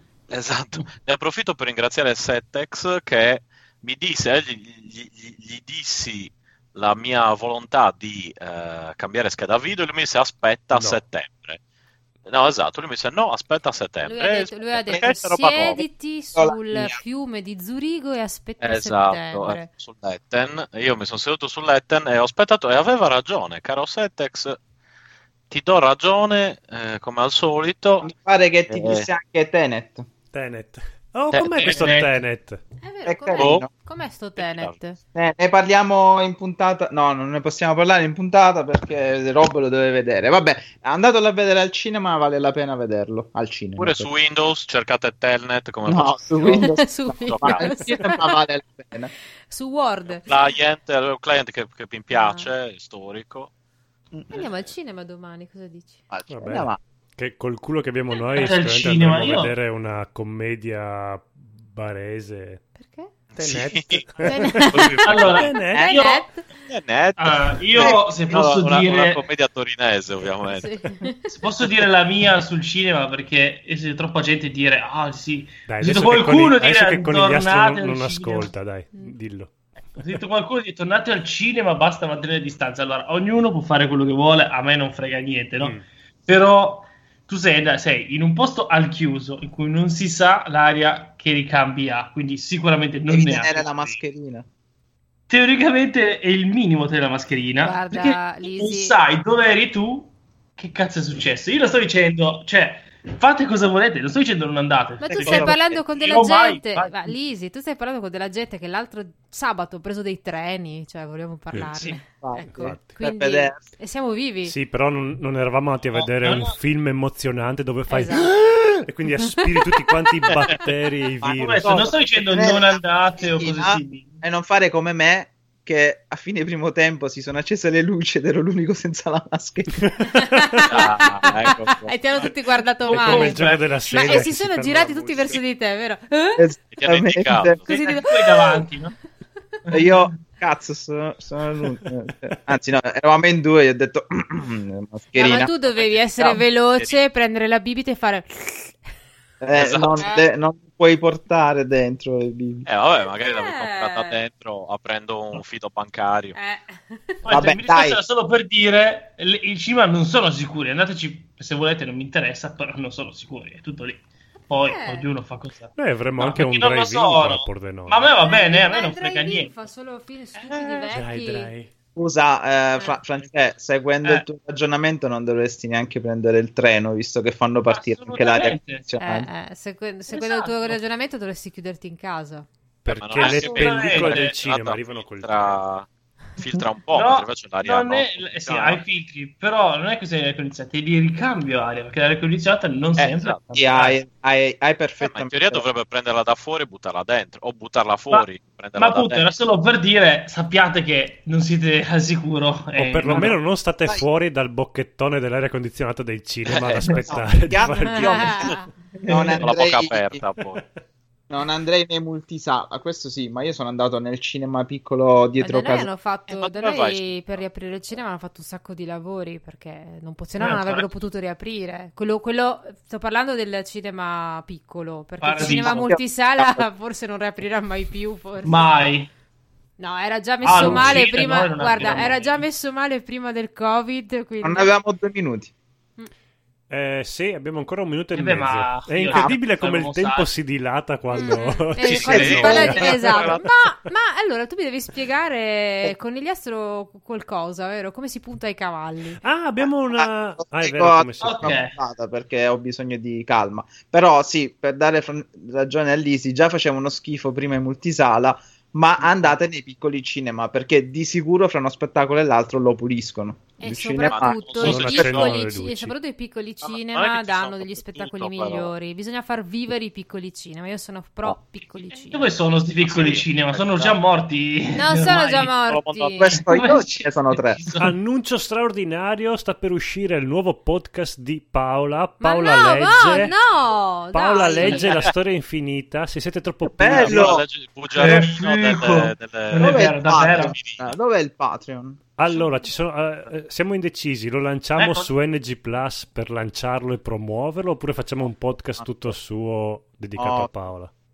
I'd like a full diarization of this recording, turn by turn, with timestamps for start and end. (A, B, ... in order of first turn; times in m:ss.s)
0:00.3-0:11.6 A
0:10.7-0:11.0 B
0:12.2-0:15.8 A
0:14.0-0:19.7 C
0:16.3-0:17.0 D
0:18.6-0:24.6 A
0:25.5-0:28.1 A
0:28.0-0:30.0 D
0:28.7-0:29.0 A
0:30.3-0:32.6 B
0:31.3-0:31.8 A
0:31.7-0:32.1 E
0:32.8-0:35.0 C
0:33.0-0:33.7 D
0:33.3-0:33.7 A
0:34.4-0:34.8 A
0:35.1-0:44.1 D
0:43.8-0:47.7 A
0:45.9-0:49.1 D
0:46.5-0:48.3 C
0:49.5-0:50.3 C
0:50.1-0:53.5 A
0:52.1-0:52.5 C
0:54.1-0:54.4 D
0:54.3-0:56.0 C
0:54.4-0:54.6 A
0:56.1-0:56.8 D
0:56.3-1:02.6 B
0:58.4-0:59.5 E
1:02.8-1:03.1 C
1:03.3-1:05.6 A
1:03.4-1:06.0 B
1:04.2-1:05.1 C
1:05.0-1:06.2 E
1:05.6-1:06.5 C
1:06.6-1:10.8 A
1:07.2-1:09.2 E
1:07.8-1:08.4 D
1:10.5-1:11.3 C
1:11.3-1:18.5 E
1:15.7-1:19.5 B
1:20.0-1:34.0 E
1:25.6-1:25.9 B
1:33.1-1:34.4 D
1:35.3-1:47.1 E
1:37.6-1:38.9 C
1:45.0-1:54.6 C
1:45.1-1:46.3 D
1:51.8-1:53.7 D
1:52.6-1:52.9 B
1:54.4-2:01.9 B
1:55.9-1:56.6 E
1:57.9-1:58.4 C
2:01.2-2:09.8 D
2:01.3-2:04.2 E
2:09.8-2:10.7 B
2:10.1-2:16.4 C
2:10.6-2:11.9 A
2:12.2-2:14.3 E
2:12.9-2:15.4 B
2:16.4-2:17.6 D
2:16.7-2:17.8 A
2:17.7-2:18.9 E
2:17.8-2:18.7 C
2:19.7-2:20.1 E
2:19.7-2:25.5 D
2:25.1-2:28.8 C
2:25.3-2:27.0 A
2:26.2-2:26.4 D
2:29.4-2:32.7 D
2:29.5-2:30.2 A
2:32.6-2:36.4 A
2:33.0-2:34.2 C
2:36.4-2:37.3 C
2:37.2-2:49.5 E
2:37.3-2:38.0 D
2:44.6-2:45.0 C
2:45.8-2:48.1 B
2:48.2-2:51.5 C
2:50.9-2:51.7 B
2:52.0-2:59.3 D
2:57.7-2:58.9 E
2:59.0-3:02.5 C
3:00.1-3:00.8 E
3:02.8-3:05.6 B
3:02.9-3:08.8 A
3:03.2-3:04.4 E
3:06.9-3:14.0 E
3:13.0-3:13.4 A
3:13.6-3:15.6 D
3:15.0-3:19.3 A
3:18.8-3:23.4 E
3:22.8-3:28.4 B
3:26.5-3:27.1 A
3:27.1-3:30.2 D
3:27.8-3:28.7 C
3:29.4-3:30.6 A
3:31.3-3:35.9 D
3:35.4-3:48.7 C
3:36.2-3:37.4 A
3:40.4-3:40.9 E
3:45.2-3:45.9 E
3:45.4-3:46.6 D
3:48.4-3:49.1 E
3:49.8-3:54.7 C
3:50.4-3:52.4 E
3:50.6-3:51.0 B
3:54.4-3:55.5 D
3:56.7-4:03.9 B
3:58.1-4:00.3 E
3:59.1-3:59.4 D
4:01.2-4:09.2 C
4:01.2-4:03.3 D
4:01.8-4:03.4 A
4:09.2-4:11.6 B
4:09.6-4:24.8 D
4:11.2-4:11.8 E
4:23.6-4:32.2 C
4:24.0-4:25.5 A
4:24.6-4:25.9 B
4:26.6-4:28.7 A
4:31.9-4:35.5 E
4:32.8-4:34.0 A
4:34.8-4:36.2 C
4:35.0-4:36.2 A
4:36.2-4:37.6 D
4:36.3-4:37.9 E
4:37.8-4:43.4 B
4:42.2-4:44.9 C
4:44.1-4:47.4 B
4:44.6-4:45.0 E
4:46.6-4:47.4 D
4:46.9-4:50.9 A
4:48.0-4:50.6 E
4:49.6-4:52.0 D
4:52.2-5:00.9 B
4:54.8-4:55.1 E
4:58.8-4:59.1 D
5:00.2-5:00.5 D